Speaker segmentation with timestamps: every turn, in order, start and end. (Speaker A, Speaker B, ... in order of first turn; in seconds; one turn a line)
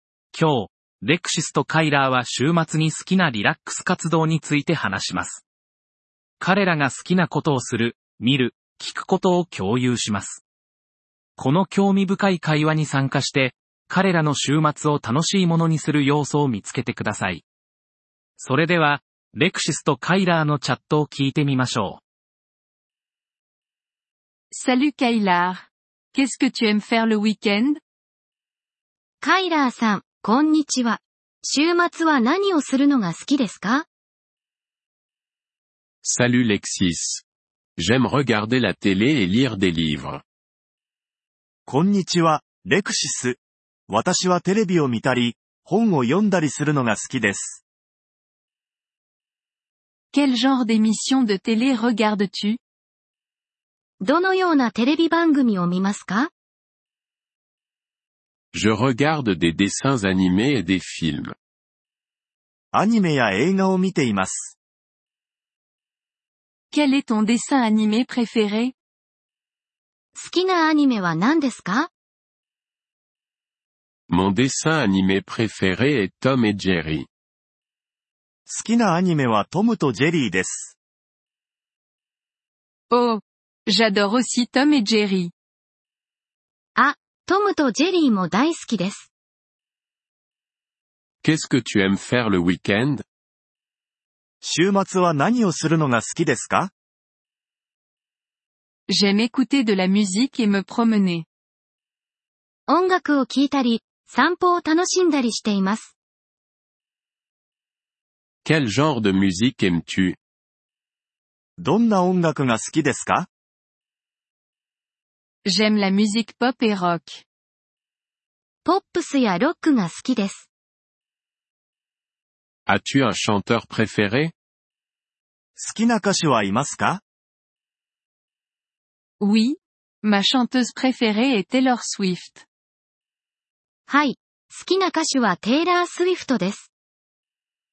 Speaker A: 0.3-5.4
Speaker A: 6.4-10.4
Speaker A: 11.4-17.4
Speaker A: 18.4-22.0
Speaker B: 24.5-27.7
Speaker C: 29.2-33.9
Speaker D: 36.0-37.2
Speaker D: 37.8-40.2
Speaker E: 41.7-47.6
Speaker B: 50.1-52.6
Speaker C: 54.0-56.3
Speaker D: 58.5-61.3
Speaker E: 62.7-64.5
Speaker B: 66.7-68.7
Speaker C: 70.2-71.9
Speaker D: 74.1-77.1
Speaker E: 78.5-80.7
Speaker B: 82.9-85.3
Speaker C: 86.8-89.1
Speaker D: 91.2-93.0
Speaker E: 94.4-96.7
Speaker B: 98.9-101.2
Speaker C: 102.7-105.9
Speaker D: 108.4-110.2
Speaker E: 111.6-113.3
Speaker B: 115.5-117.2
Speaker C: 118.6-120.5
Speaker D: 122.7-124.3
Speaker E: 125.5-127.0
Speaker B: 129.2-132.4
Speaker C: 133.9-136.7